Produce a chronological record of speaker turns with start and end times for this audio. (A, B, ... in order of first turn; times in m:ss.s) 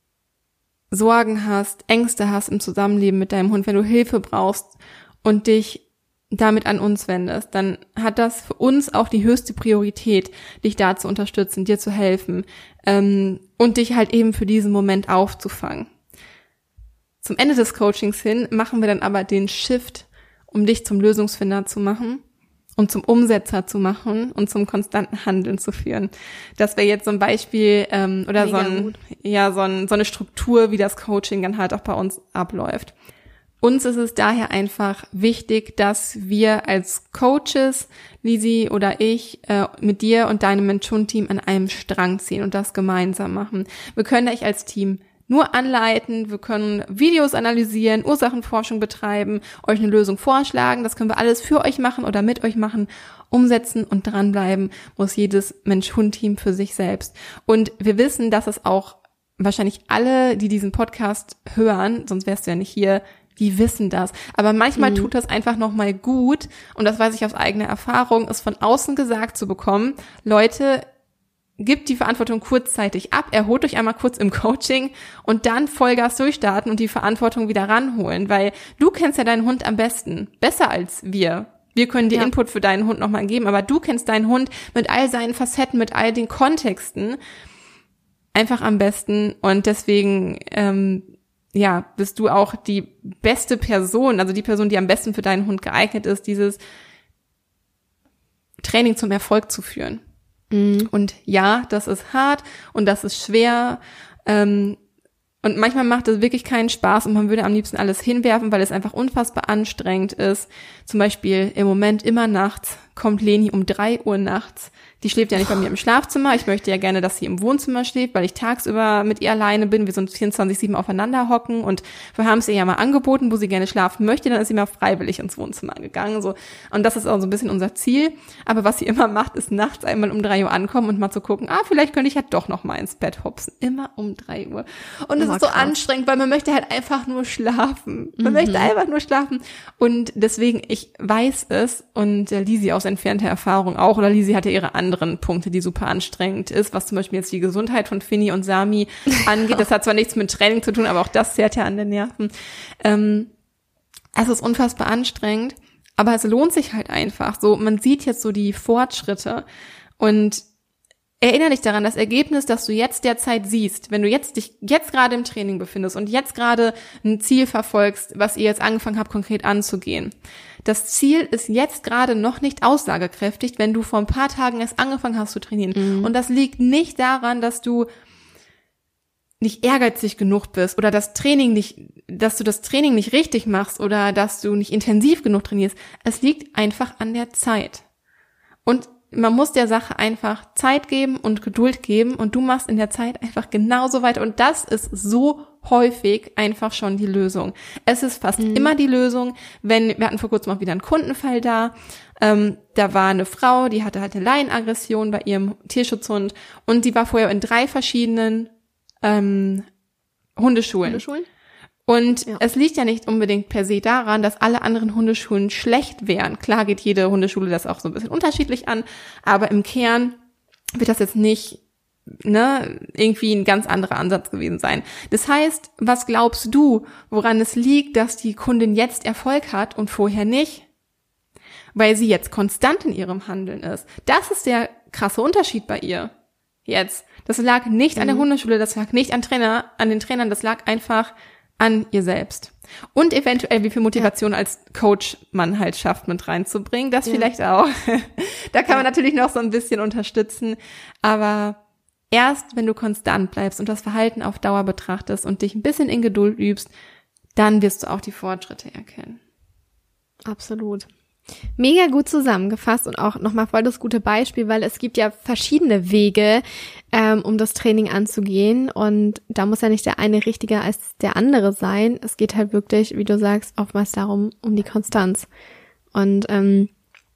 0:00.9-0:15.9 A
0:17.2-0:22.2 A
0:22.8-0:32.9 A
0:28.4-0:29.0 B
0:33.6-1:10.9 A
1:04.8-1:05.1 B
1:11.6-1:27.2 A
1:28.4-1:36.6 A
1:38.6-1:40.0 A
1:40.5-1:40.9 B
1:40.9-1:44.8 A
1:45.4-2:33.3 A
2:15.2-2:15.8 B
2:18.2-2:18.7 B
2:34.2-2:39.4 A
2:40.0-2:40.4 A
2:41.2-2:50.1 A
2:50.6-2:57.9 A
2:55.8-2:56.1 B
2:59.4-3:07.8 A
3:08.7-3:28.5 A
3:18.4-3:18.7 B
3:29.0-3:29.7 A
3:30.4-3:31.0 A
3:30.9-3:31.3 B
3:31.9-3:40.2 A
3:40.8-3:41.6 A
3:42.2-3:50.7 A
3:51.7-3:56.1 A
3:56.7-4:11.6 A
3:58.0-3:58.3 B
4:12.1-4:16.7 A
4:17.4-4:19.2 A
4:20.3-4:20.9 B
4:21.6-4:35.3 B
4:35.9-4:36.7 B